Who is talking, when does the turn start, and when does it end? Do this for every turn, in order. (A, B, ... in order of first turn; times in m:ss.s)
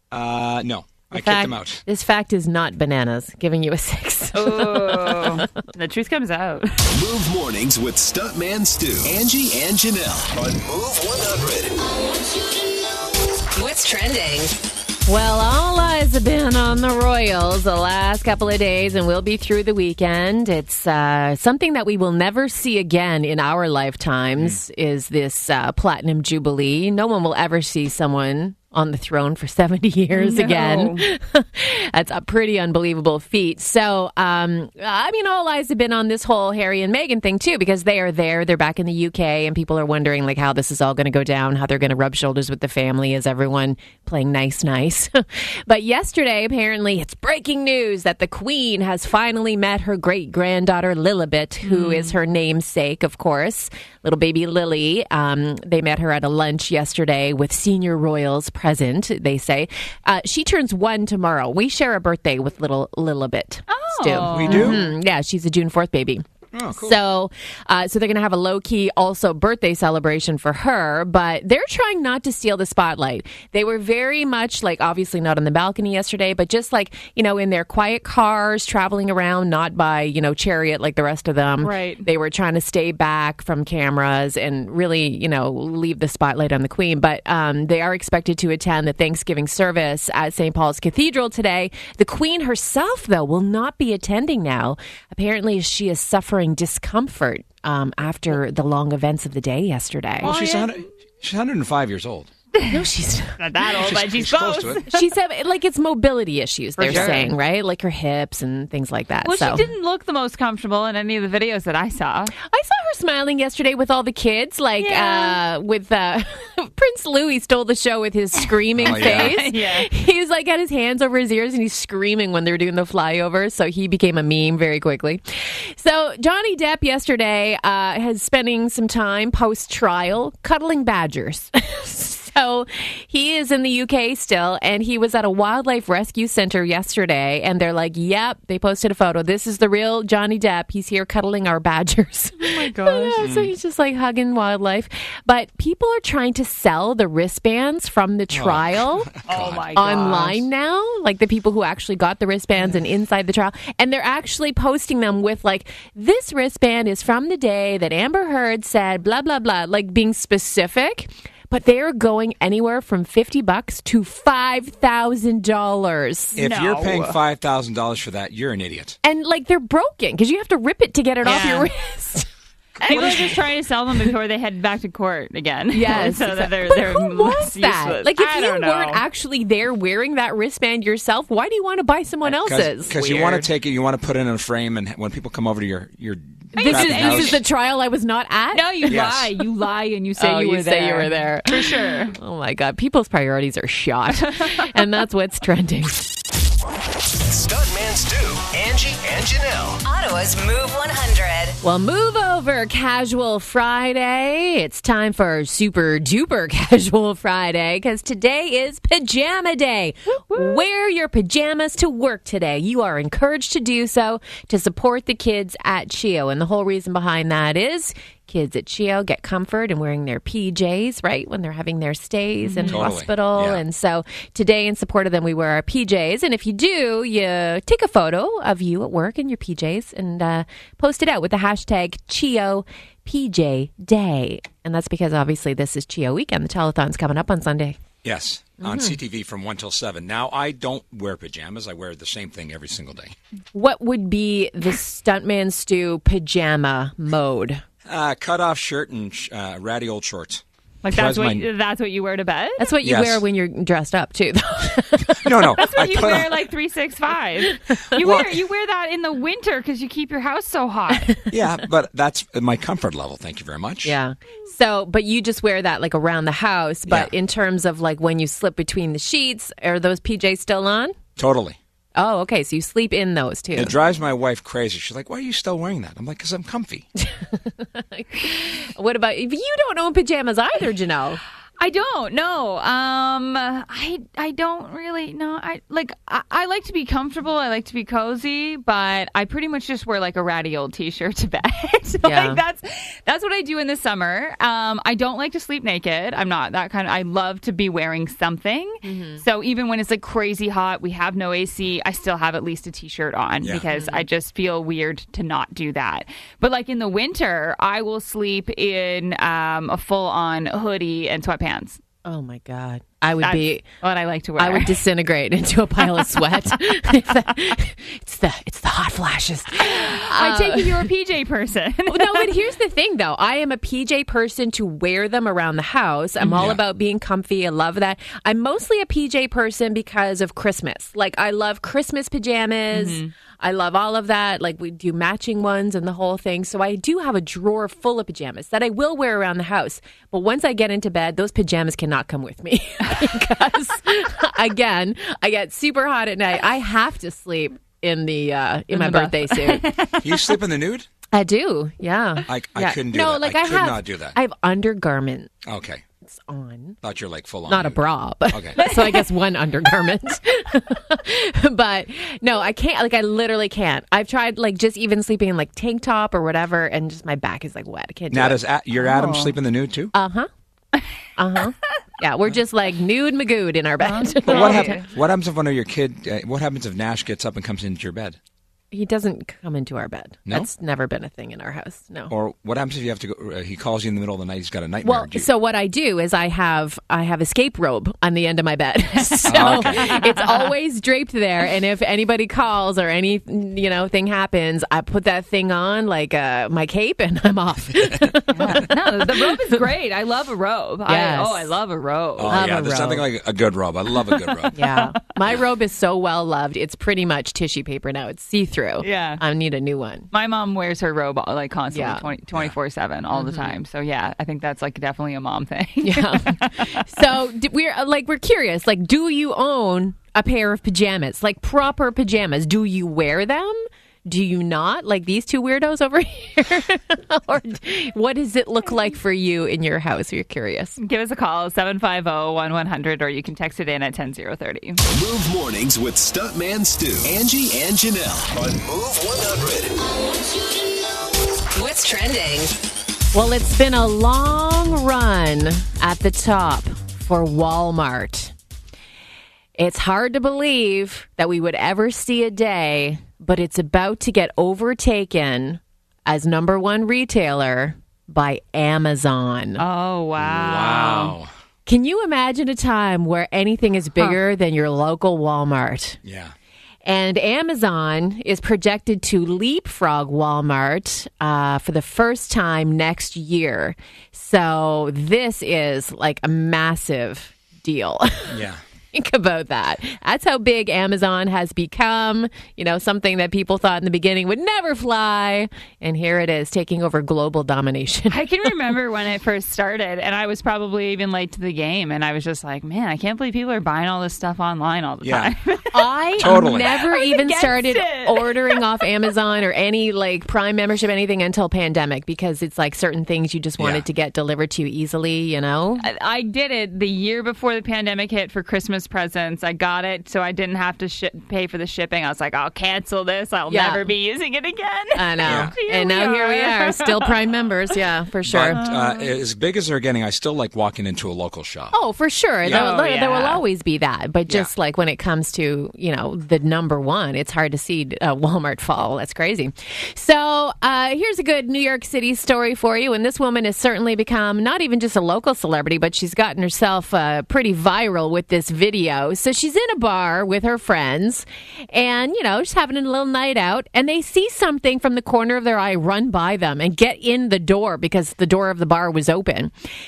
0:00.1-0:01.8 A
0:01.1-0:05.5 B
0:04.3-0:06.8 C
0:06.9-0:11.8 D
0:13.5-0:14.6 E
0:15.1-1:40.4 B
0:30.1-0:31.0 C
0:51.6-0:52.2 C
1:03.7-1:04.8 C
1:04.3-1:04.9 A
1:06.5-1:07.0 A
1:21.6-1:22.1 C
1:40.2-1:42.3 A
1:40.2-1:40.9 C
1:42.7-1:43.4 B
1:43.4-1:45.0 C
1:43.8-1:44.8 A
1:44.9-1:49.7 B
1:46.8-1:47.3 C
1:46.8-1:47.2 A
1:49.2-1:52.3 C
1:52.4-2:29.1 B
1:54.8-1:55.4 C
1:58.8-1:59.4 A
1:58.9-1:59.9 C
2:22.4-2:23.2 C
2:23.2-2:23.5 A
2:28.3-2:29.7 A
2:29.3-2:30.5 C
2:29.7-2:46.4 B
2:46.4-2:47.2 C
2:46.4-2:49.0 A
2:49.0-2:52.3 B
2:51.2-2:51.7 C
2:52.8-2:53.2 A
2:52.8-2:53.4 B
2:52.9-2:59.0 C
2:55.7-3:03.3 B
3:02.2-3:07.4 A
3:02.9-3:03.5 C
3:06.5-3:07.4 C
3:06.6-3:09.0 B
3:08.5-3:12.2 C
3:08.9-3:09.3 A
3:10.2-3:16.1 B
3:14.2-3:14.7 C
3:17.2-3:19.8 D
3:19.8-3:21.6 E
3:21.6-3:57.8 B
3:30.1-3:30.6 C
3:42.4-3:42.9 C
3:42.7-3:43.6 A
3:58.0-4:03.2 A
3:58.6-3:59.0 B
4:03.5-4:07.6 B
4:07.9-4:11.5 A
4:10.8-4:12.7 C
4:12.6-4:16.0 B
4:12.8-4:13.2 A
4:15.2-4:16.4 A
4:15.6-4:21.2 C
4:17.5-4:18.2 B
4:18.0-4:18.3 A
4:21.3-4:24.0 A
4:23.8-4:31.0 B
4:31.2-4:31.6 A
4:32.0-4:33.8 B
4:33.5-4:36.9 A
4:37.2-4:41.2 B
4:41.6-5:11.8 C
4:52.0-4:52.4 B
4:58.8-4:59.2 B
5:03.7-5:04.1 B
5:12.0-5:13.6 B
5:13.2-5:14.8 C
5:14.4-5:20.9 B
5:19.6-5:22.3 C
5:21.9-5:49.7 B
5:26.3-5:26.6 A
5:32.7-5:33.1 C
5:48.7-5:50.1 C
5:50.0-5:50.9 A
5:51.1-5:55.3 B
5:52.3-5:54.2 A
5:55.5-5:55.8 A
5:56.0-5:56.8 B
5:56.8-5:58.6 A
5:57.5-6:08.4 B
5:58.6-5:59.0 C
6:08.1-6:09.9 A
6:08.8-6:09.3 C
6:09.9-6:10.3 B
6:11.2-6:14.8 B
6:13.8-6:14.9 C
6:14.3-6:18.2 A
6:18.7-6:22.1 B
6:22.1-6:25.3 A
6:24.8-6:39.6 B
6:29.1-6:30.5 C
6:29.3-6:30.0 A
6:38.3-6:42.4 C
6:40.9-6:41.5 B
6:42.2-6:44.5 A
6:42.3-6:43.1 B
6:44.4-6:44.8 C
6:44.5-6:50.1 B
6:48.8-6:49.2 C
6:50.1-6:56.9 C
6:51.7-6:52.1 B
6:53.1-6:53.5 B
6:55.8-7:10.8 B
7:10.8-7:14.8 C
7:14.8-7:19.8 D
7:21.5-7:22.5 E
7:23.1-7:28.3 B
7:29.6-7:39.6 B
7:39.6-7:41.2 C
7:40.2-7:41.3 A
7:41.7-7:46.0 B
7:46.0-7:46.3 A
7:46.8-8:08.2 B
7:58.3-7:58.6 A
8:08.1-8:18.8 C
8:15.0-8:15.3 A
8:15.7-8:25.8 B
8:16.2-8:16.8 A
8:23.6-8:23.8 A
8:25.8-8:37.2 C
8:33.5-8:33.9 B
8:35.0-8:38.6 B
8:35.2-8:35.5 A
8:38.3-8:41.8 A
8:38.5-8:39.0 C
8:41.7-9:09.5 B
8:42.5-8:43.4 C